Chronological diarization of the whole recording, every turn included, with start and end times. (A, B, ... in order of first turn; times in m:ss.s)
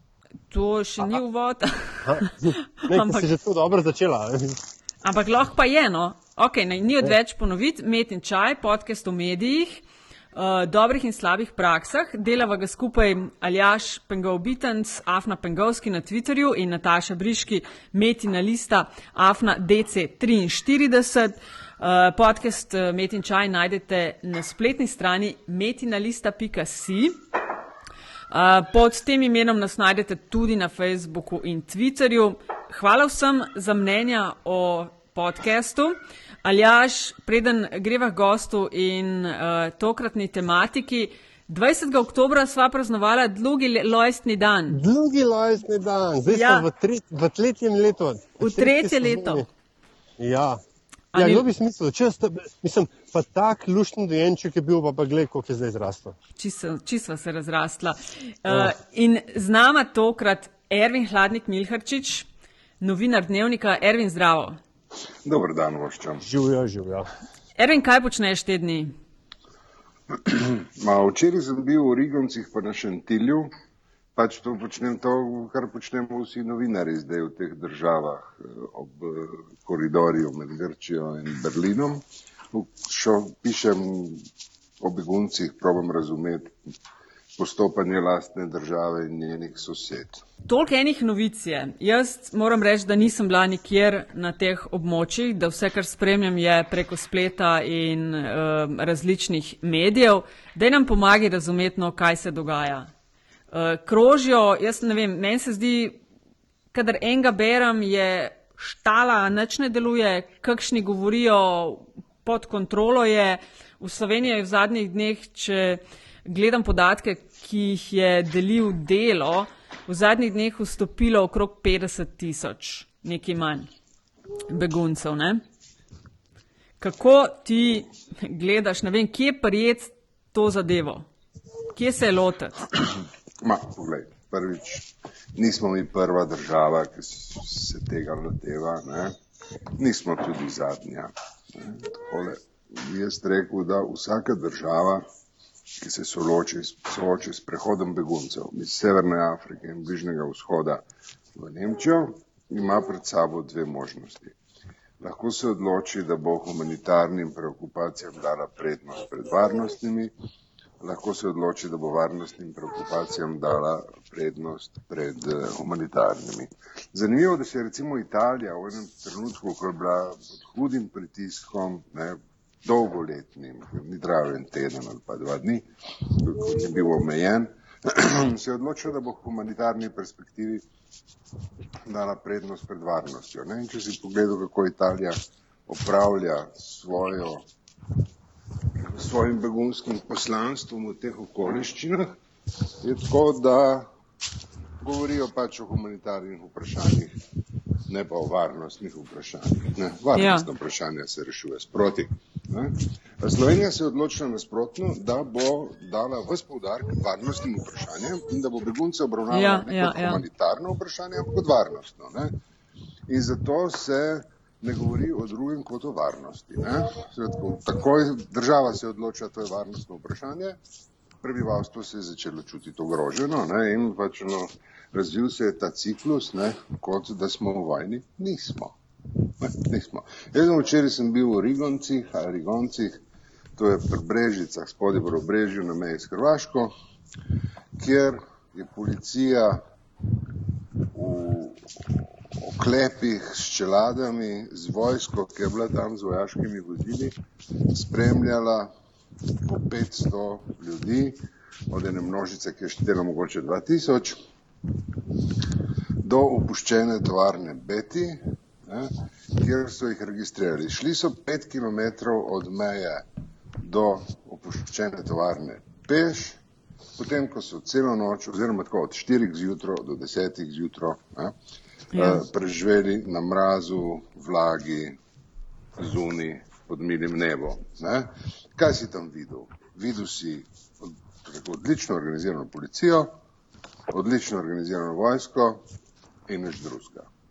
0:00.5-0:03.3 A
0:02.1-0:04.6 B
0:05.0-0:09.8 A
0:10.3-0:27.2 A
0:28.3-0:44.8 A
0:44.7-0:49.5 B
0:46.3-0:46.7 A
0:48.4-0:49.4 A
0:50.2-0:50.6 B
0:51.1-0:51.4 A
0:51.2-0:56.2 B
0:56.4-1:02.3 A
1:02.8-1:04.6 A
1:05.2-1:06.2 C
1:06.2-1:07.1 B
1:07.6-1:08.9 A
1:10.2-1:13.5 C
1:14.2-1:24.3 C
1:24.8-1:26.5 C
1:27.4-1:30.2 C
1:30.5-1:42.9 A
1:43.5-1:46.0 A
1:46.7-2:03.7 A
2:04.5-2:05.4 A
2:06.8-2:11.1 A
2:11.7-2:12.6 A
2:13.4-2:19.2 C
2:19.8-2:25.0 C
2:25.8-2:30.8 C
2:31.4-2:34.3 C
2:35.0-2:40.1 C
2:40.8-3:00.6 C
3:01.9-3:07.5 C
3:08.8-3:12.1 C
3:12.8-3:13.9 C
3:14.8-3:17.2 C
3:17.9-3:32.3 C
3:20.2-3:20.5 A
3:29.3-3:30.2 A
3:33.1-3:40.6 C
3:41.2-3:48.8 C
3:49.4-3:53.0 C
3:53.6-3:56.7 C
3:57.8-3:59.6 C
4:00.9-4:07.2 C
4:07.7-4:08.7 C
4:09.4-4:14.2 C
4:16.0-4:23.0 C
4:23.6-4:26.4 C
4:27.0-4:31.3 C
4:31.9-4:32.2 A
4:32.0-4:35.0 C
4:35.8-4:43.2 C
4:43.9-4:45.7 C
4:46.3-4:47.1 C